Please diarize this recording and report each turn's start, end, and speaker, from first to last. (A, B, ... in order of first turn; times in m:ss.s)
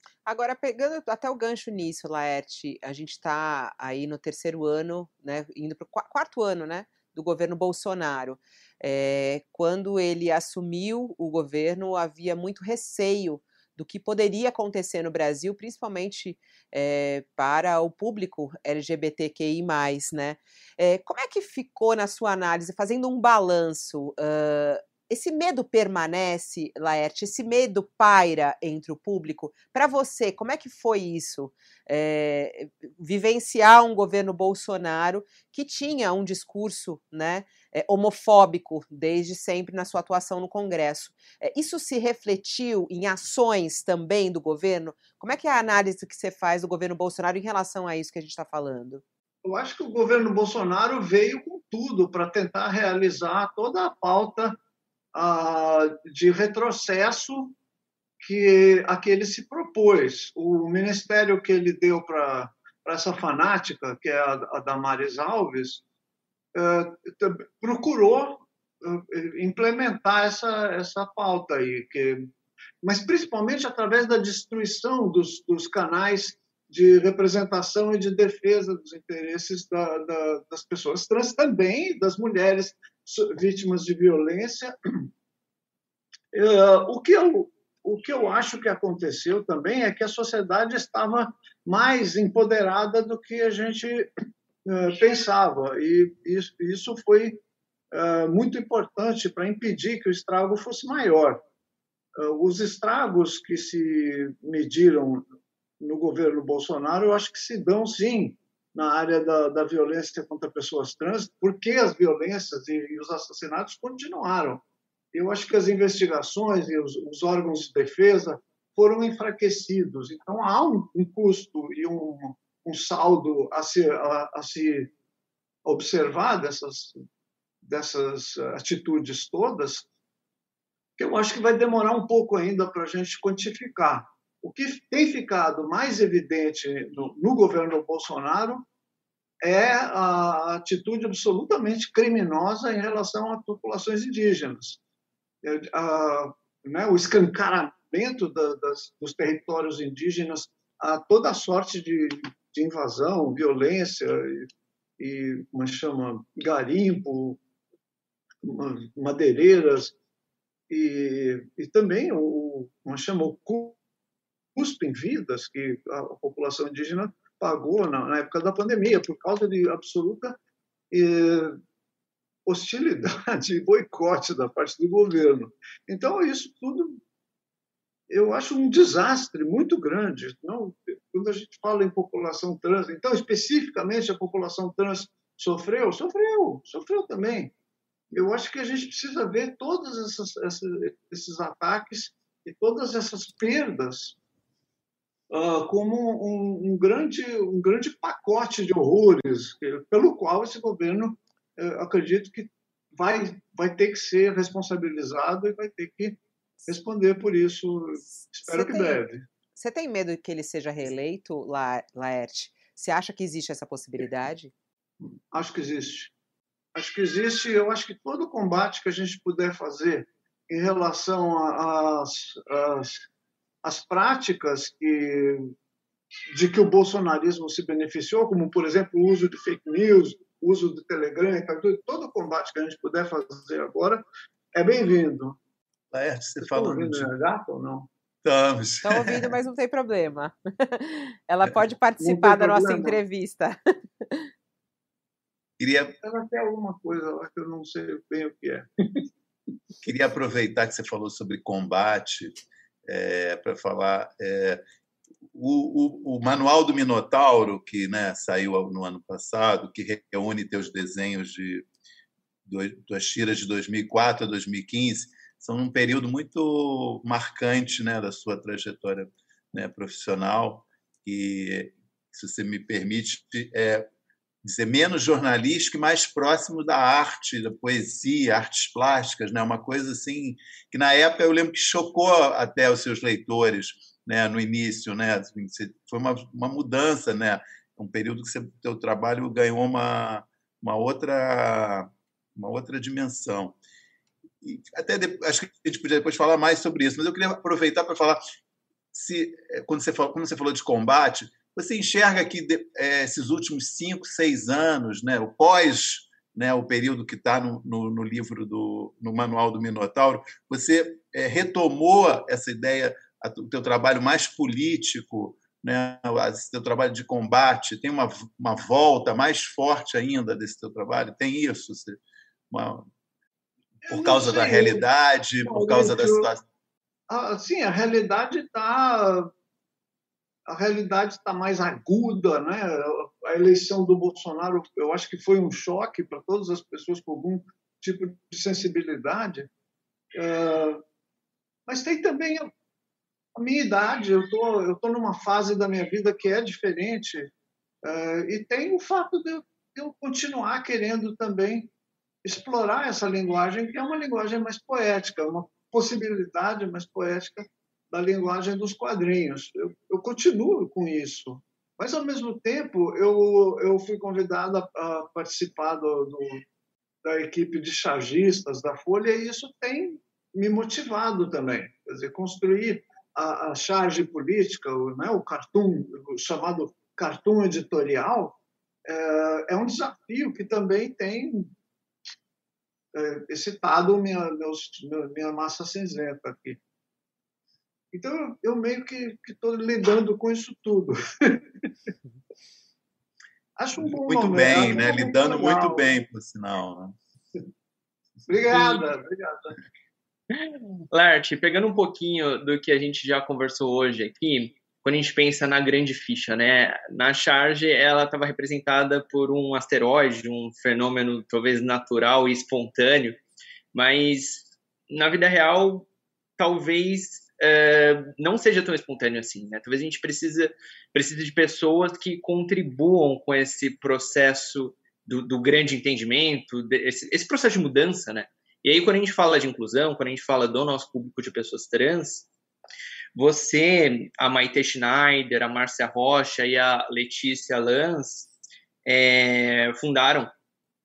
0:00.3-0:49.0 A
0:49.4-0:54.6 B
0:55.2-0:57.6 B
0:58.2-1:05.8 B
1:06.6-1:12.3 B
1:12.8-1:25.1 B
1:26.3-1:34.1 B
1:34.7-1:37.4 B
1:37.9-1:41.4 B
1:42.2-1:45.2 B
1:45.8-2:04.9 B
2:05.6-2:07.0 B
2:07.6-2:09.9 B
2:11.0-2:18.7 B
2:19.4-2:24.8 B
2:25.4-2:34.5 B
2:35.0-2:37.4 B
2:38.4-2:40.0 B
2:40.7-2:43.8 B
2:44.6-2:50.4 B
2:50.9-2:51.6 B
2:52.5-2:57.0 B
2:58.1-3:07.5 B
3:08.1-3:14.2 B
3:15.3-3:29.2 B
3:28.3-3:29.0 A
3:29.6-3:34.5 A
3:35.3-3:36.1 B
3:36.8-3:43.0 B
3:43.6-3:45.5 B
3:46.3-3:54.0 B
3:54.5-3:55.4 B
3:55.9-3:57.1 C
3:56.4-3:57.9 B
3:58.2-3:59.4 C
3:58.8-4:03.6 A
4:02.0-4:03.0 B
4:05.6-4:06.0 C
4:06.0-4:09.0 B
4:09.8-4:12.4 C
4:12.9-4:14.6 C
4:15.3-4:21.7 C
4:22.5-4:33.9 C
4:34.4-4:53.6 C
4:54.4-4:58.2 C
4:58.9-5:22.9 C
5:23.9-5:24.8 B
5:23.9-5:26.4 C
5:25.4-5:26.3 B
5:27.1-5:29.3 B
5:30.5-5:39.5 B
5:40.2-5:40.8 B
5:41.7-5:42.5 B
5:43.4-5:47.3 B
5:47.8-5:51.7 B
5:52.2-6:06.4 B
6:07.0-6:21.5 B
6:22.9-6:26.6 B
6:27.9-6:31.4 B
6:33.6-6:35.9 B
6:33.8-6:37.0 C
6:38.3-6:39.6 B
6:38.5-6:38.8 D
6:40.3-6:53.2 D
6:53.7-7:12.3 D
7:13.2-7:18.3 D
7:18.9-7:20.3 D